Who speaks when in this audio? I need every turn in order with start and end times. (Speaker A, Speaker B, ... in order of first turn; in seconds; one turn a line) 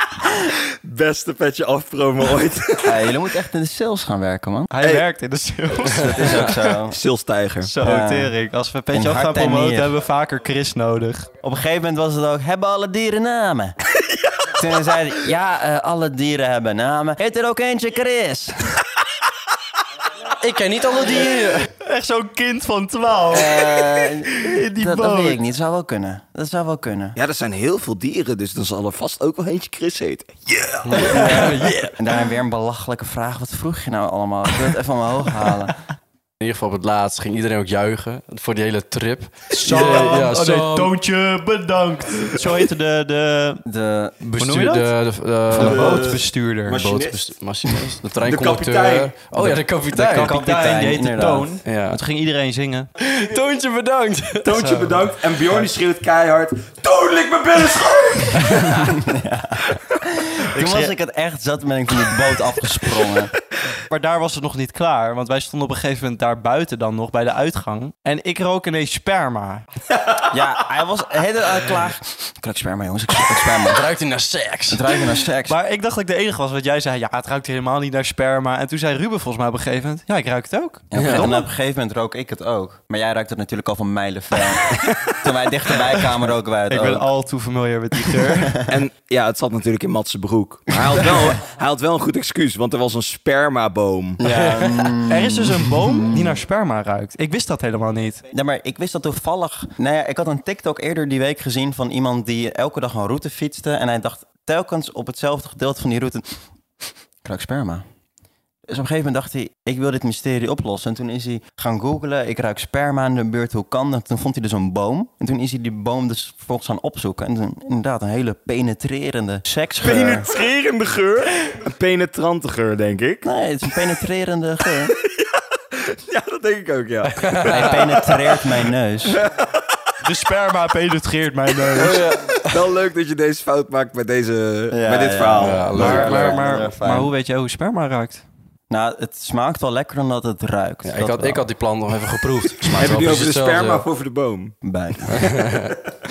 Speaker A: 0.4-3.0
Speaker B: 2.8-4.7
Speaker C: 4.7-6.7
Speaker B: 6.0-7.0
Speaker A: 6.9-7.7
Speaker C: 7.6-11.3
Speaker B: 7.8-8.3
Speaker B: 8.9-9.9
Speaker B: 11.4-13.8
Speaker B: 14.5-18.6
Speaker D: 20.4-21.7
Speaker C: 21.8-25.4
Speaker B: 23.3-27.2
Speaker A: 27.2-31.7
Speaker B: 30.9-35.8
Speaker D: 31.0-31.7
Speaker C: 31.0-31.9
Speaker D: 36.4-40.9
Speaker C: 39.5-43.6
Speaker B: 43.6-44.2
Speaker D: 44.2-46.1
Speaker C: 44.4-44.9
Speaker C: 45.5-46.8
Speaker A: 45.5-49.2
Speaker D: 46.7-50.3
Speaker C: 49.4-52.9
Speaker B: 50.1-51.6
Speaker D: 51.6-52.0
Speaker D: 53.0-54.5
Speaker A: 54.4-58.9
Speaker C: 54.5-55.1
Speaker B: 58.7-63.3
Speaker C: 60.5-60.9
Speaker C: 63.9-69.7
Speaker B: 70.3-73.9
Speaker D: 73.7-74.8
Speaker B: 74.7-75.6
Speaker C: 75.5-81.4
Speaker B: 80.9-87.1
Speaker D: 81.0-81.3
Speaker C: 86.7-88.6
Speaker B: 88.3-88.8
Speaker A: 88.7-94.2
Speaker B: 94.2-96.4
Speaker C: 95.1-98.2
Speaker B: 98.3-106.2
Speaker B: 107.2-107.8
Speaker B: 108.7-120.3
Speaker A: 119.8-123.3
Speaker B: 123.2-125.0
Speaker A: 124.9-129.7
Speaker D: 127.2-127.8
Speaker B: 127.5-129.2
Speaker C: 130.0-132.0
Speaker D: 131.8-132.4
Speaker A: 132.5-136.0
Speaker B: 134.7-137.1
Speaker D: 135.4-136.5
Speaker C: 135.8-138.2
Speaker B: 138.7-141.5
Speaker D: 140.8-143.9
Speaker A: 142.8-144.6
Speaker B: 144.6-145.4
Speaker D: 145.2-145.7